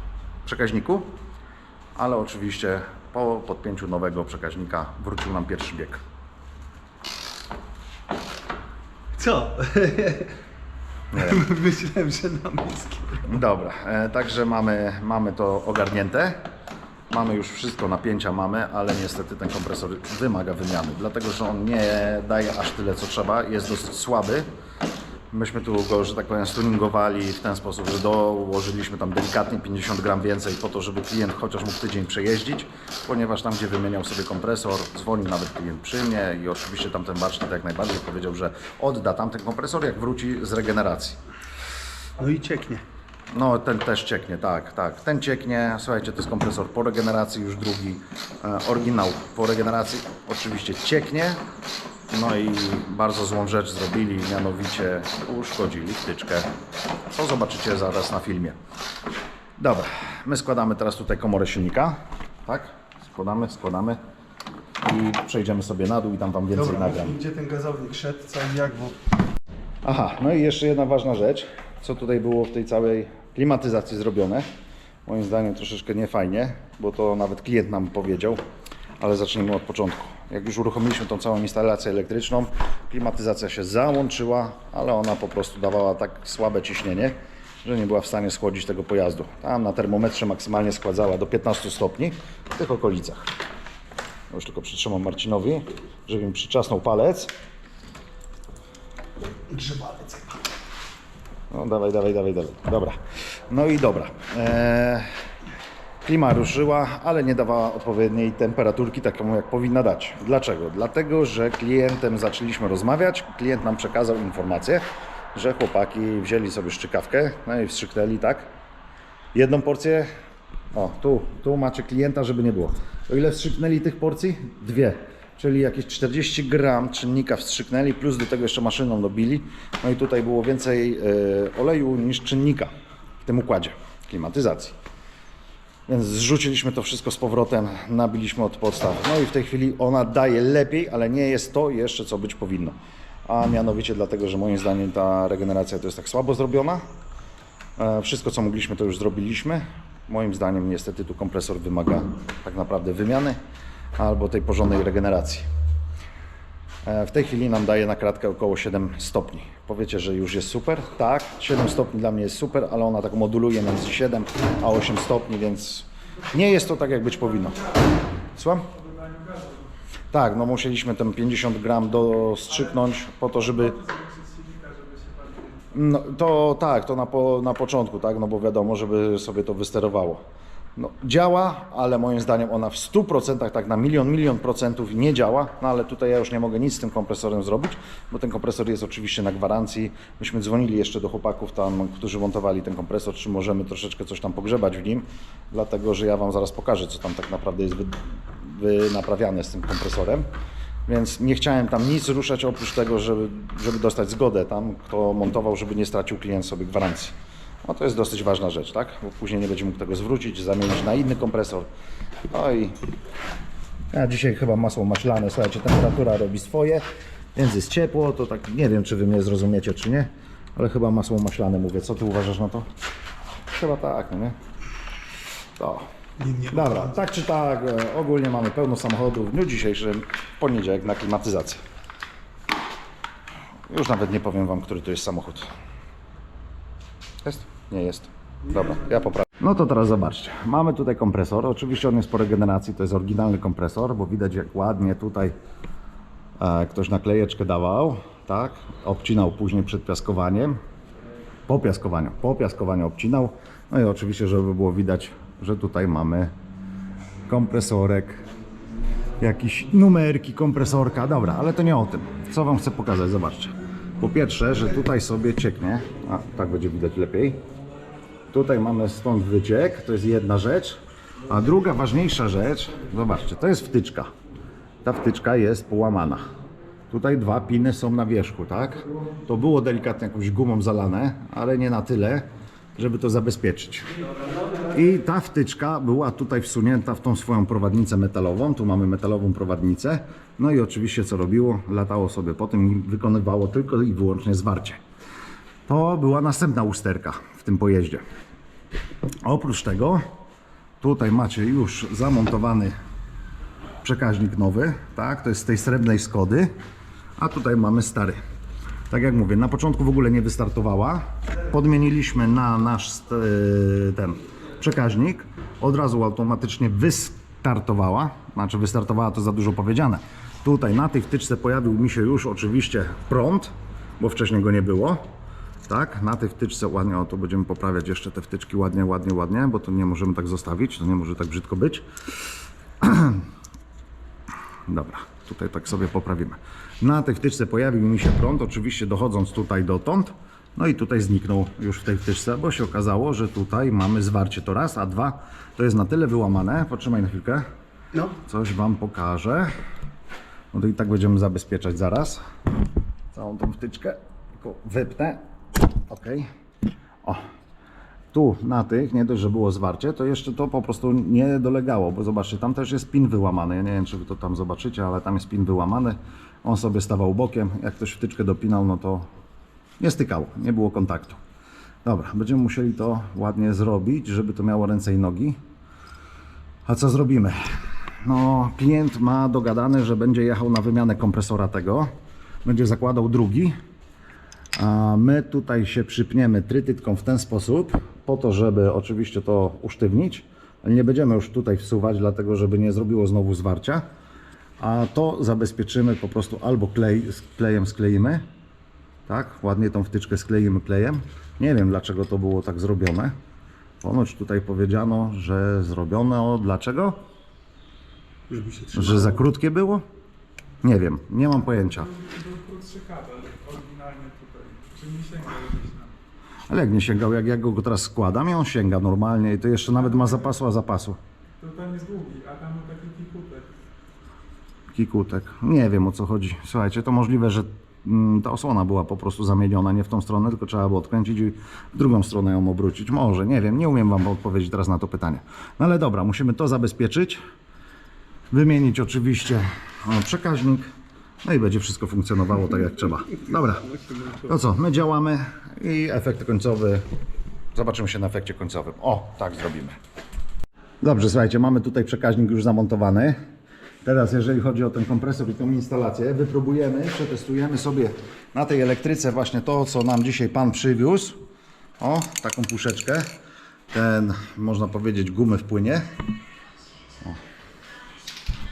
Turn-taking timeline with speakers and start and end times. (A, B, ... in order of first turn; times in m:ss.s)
0:00.4-0:01.1 A
0:02.0-0:06.0 A
0:09.1-0:10.3 B
0:11.1-0:11.4 A
0:11.1-0:13.2 B
0:13.2-0:16.4 A
0:17.1-0:24.4 A
0:25.3-0:41.2 A
0:42.2-0:42.8 B
0:43.3-0:51.4 A
0:52.1-0:56.5 A
0:57.1-0:58.6 A
0:59.6-1:04.0 A
1:04.8-1:07.2 A
1:06.5-1:09.0 B
1:09.8-1:14.5 A
1:15.0-1:18.4 A
1:19.0-1:33.3 A
1:34.3-1:37.3 A
1:39.5-1:40.4 B
1:41.5-1:45.1 A
1:46.0-1:54.8 A
1:55.3-1:58.5 A
1:59.3-2:00.1 A
2:00.7-2:12.7 A
2:13.2-2:14.7 A
2:15.9-2:26.8 A
2:27.8-2:33.4 A
2:34.0-2:35.5 A
2:36.8-2:47.8 A
2:48.3-2:48.7 A
2:48.8-2:49.6 C
2:50.1-2:53.8 A
2:53.5-2:55.7 C
2:55.7-3:00.2 A
3:00.8-3:20.3 A
3:20.9-3:31.7 A
3:32.3-3:32.7 A
3:33.9-3:36.8 A
3:37.3-3:42.7 A
3:43.5-3:44.3 A
3:45.6-3:45.9 A
3:46.2-3:46.9 B
3:46.5-3:51.6 A
3:53.7-3:55.4 A
3:57.2-4:05.3 A
4:06.4-4:10.5 A
4:11.5-4:16.3 A
4:17.3-4:18.2 A
4:19.2-4:27.4 A
4:28.3-4:34.1 A
4:34.8-4:36.3 A
4:36.9-4:43.9 A
4:44.7-4:54.8 A
4:55.7-4:58.0 A
4:59.2-5:00.0 A
5:00.8-5:02.7 A
5:03.8-5:06.5 A
5:07.2-5:08.2 A
5:08.9-5:25.0 A
5:25.7-5:31.8 A
5:32.8-5:33.2 A
5:34.7-5:47.4 A
5:48.2-5:49.5 A
5:50.5-5:52.2 A
5:53.1-5:55.2 A
5:55.9-5:56.3 A
5:58.1-6:09.1 A
6:09.8-6:11.2 A
6:11.8-6:15.4 A
6:16.6-6:17.4 A
6:18.0-6:21.9 A
6:22.4-6:23.5 A
6:24.6-6:33.8 A
6:34.6-6:38.2 A
6:39.1-6:43.1 A
6:43.8-6:47.0 A
6:48.3-6:49.2 B
6:48.7-6:49.8 A
6:50.6-6:51.9 A
6:51.5-6:55.9 C
6:56.5-7:01.0 A
6:59.8-7:00.3 C
7:01.4-7:03.5 C
7:04.7-7:17.2 A
7:18.3-7:20.6 A
7:21.2-7:26.8 A
7:23.8-7:24.2 B
7:27.5-7:29.8 A
7:30.8-7:33.1 A
7:33.8-7:41.2 A
7:41.8-7:43.0 A
7:43.7-7:45.8 A